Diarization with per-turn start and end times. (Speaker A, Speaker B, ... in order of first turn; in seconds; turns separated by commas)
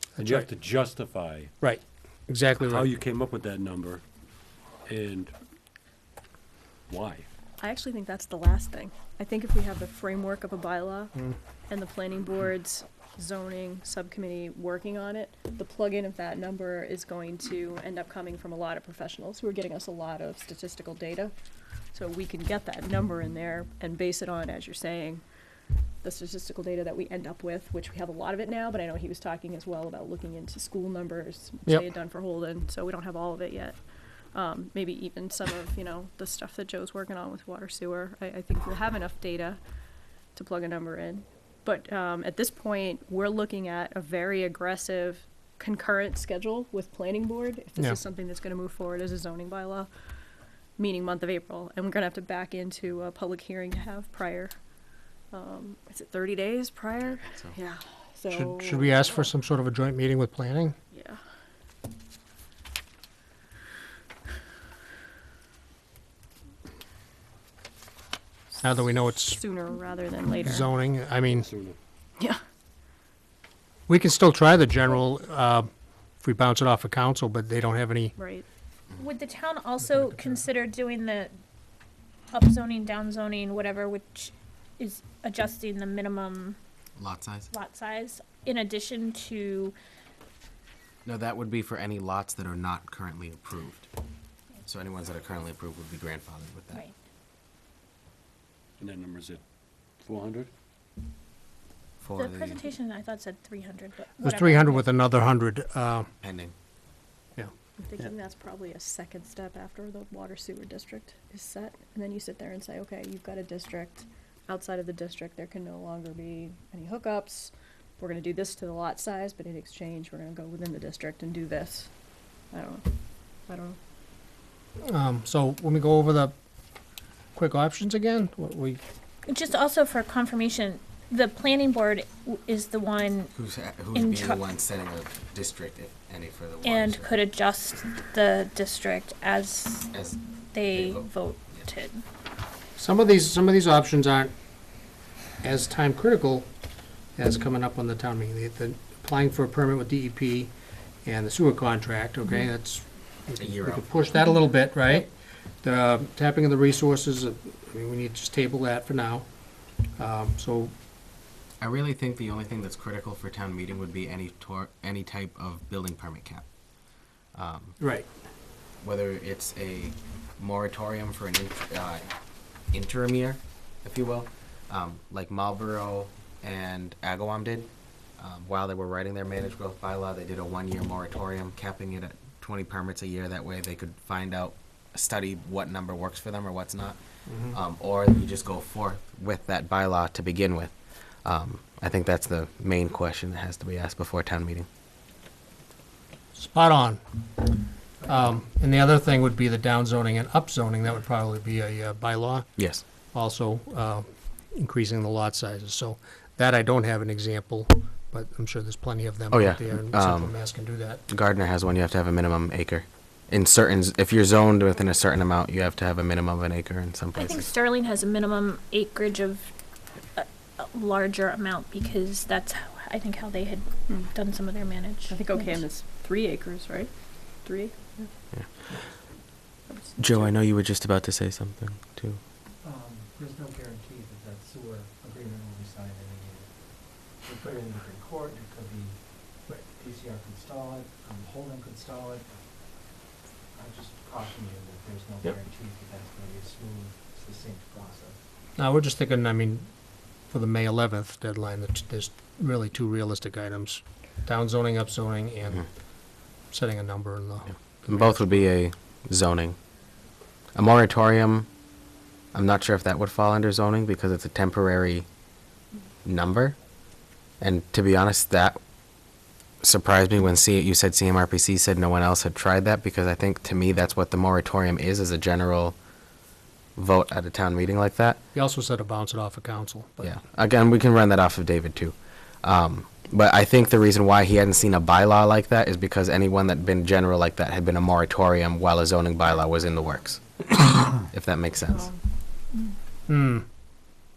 Speaker A: 0.1-0.5, Speaker B: 0.2-1.5, Speaker A: 1.6-2.9, Speaker B: 2.6-4.0, Speaker B: 4.8-5.3, Speaker B: 6.9-7.3, Speaker C: 7.6-11.1, Speaker C: 11.7-21.3, Speaker C: 21.9-25.2, Speaker C: 26.0-33.8, Speaker C: 34.3-39.6, Speaker C: 40.3-49.9, Speaker C: 50.8-54.5, Speaker C: 55.3-59.3, Speaker D: 57.2-57.6, Speaker A: 58.3-60.8, Speaker C: 60.9-61.2, Speaker C: 68.6-70.7, Speaker A: 68.6-69.4, Speaker A: 70.4-71.5, Speaker B: 71.3-71.8, Speaker A: 73.9-75.7, Speaker A: 76.2-78.1, Speaker C: 78.2-78.5, Speaker E: 79.0-81.4, Speaker A: 79.9-80.4, Speaker E: 82.3-86.6, Speaker D: 87.0-87.5, Speaker E: 87.5-89.8, Speaker D: 91.0-93.9, Speaker D: 94.6-96.8, Speaker B: 98.8-99.4, Speaker B: 100.0-100.5, Speaker D: 102.0-102.7, Speaker E: 102.2-104.8, Speaker A: 104.2-106.1, Speaker D: 106.2-106.5, Speaker C: 107.8-121.9, Speaker C: 122.5-122.9, Speaker C: 123.5-123.8, Speaker A: 124.8-126.3, Speaker A: 127.3-128.8, Speaker E: 129.3-133.3, Speaker D: 133.3-137.1, Speaker E: 133.9-134.4, Speaker E: 136.6-139.9, Speaker D: 139.9-140.2, Speaker E: 140.5-142.0, Speaker D: 140.7-141.6, Speaker A: 142.8-144.3, Speaker A: 145.4-146.5, Speaker A: 147.1-155.1, Speaker D: 153.4-154.0, Speaker A: 155.6-159.3, Speaker A: 160.0-160.7, Speaker D: 161.6-166.4, Speaker D: 167.3-167.7, Speaker A: 167.8-168.1, Speaker D: 168.8-172.1, Speaker D: 172.7-187.0, Speaker A: 187.3-187.6, Speaker D: 187.5-190.7, Speaker D: 191.2-194.7, Speaker A: 196.3-197.0, Speaker A: 198.0-202.5, Speaker D: 202.6-202.8, Speaker A: 203.1-211.0, Speaker D: 209.3-210.3, Speaker D: 211.1-217.5, Speaker E: 217.1-219.5, Speaker E: 220.1-225.6, Speaker C: 225.1-228.1, Speaker C: 229.7-230.3, Speaker D: 230.0-232.2, Speaker F: 232.6-233.9, Speaker F: 234.4-234.9, Speaker F: 237.3-238.6, Speaker F: 239.5-242.2, Speaker F: 243.6-248.1, Speaker A: 248.6-249.7, Speaker A: 250.3-255.7, Speaker A: 256.5-258.3, Speaker D: 257.5-259.6, Speaker D: 260.5-261.5, Speaker D: 262.3-265.1, Speaker D: 266.0-266.6, Speaker D: 267.4-268.6, Speaker D: 269.6-275.8, Speaker D: 276.8-278.2, Speaker A: 278.3-280.1, Speaker D: 280.0-290.2, Speaker D: 291.1-291.9, Speaker A: 293.1-293.4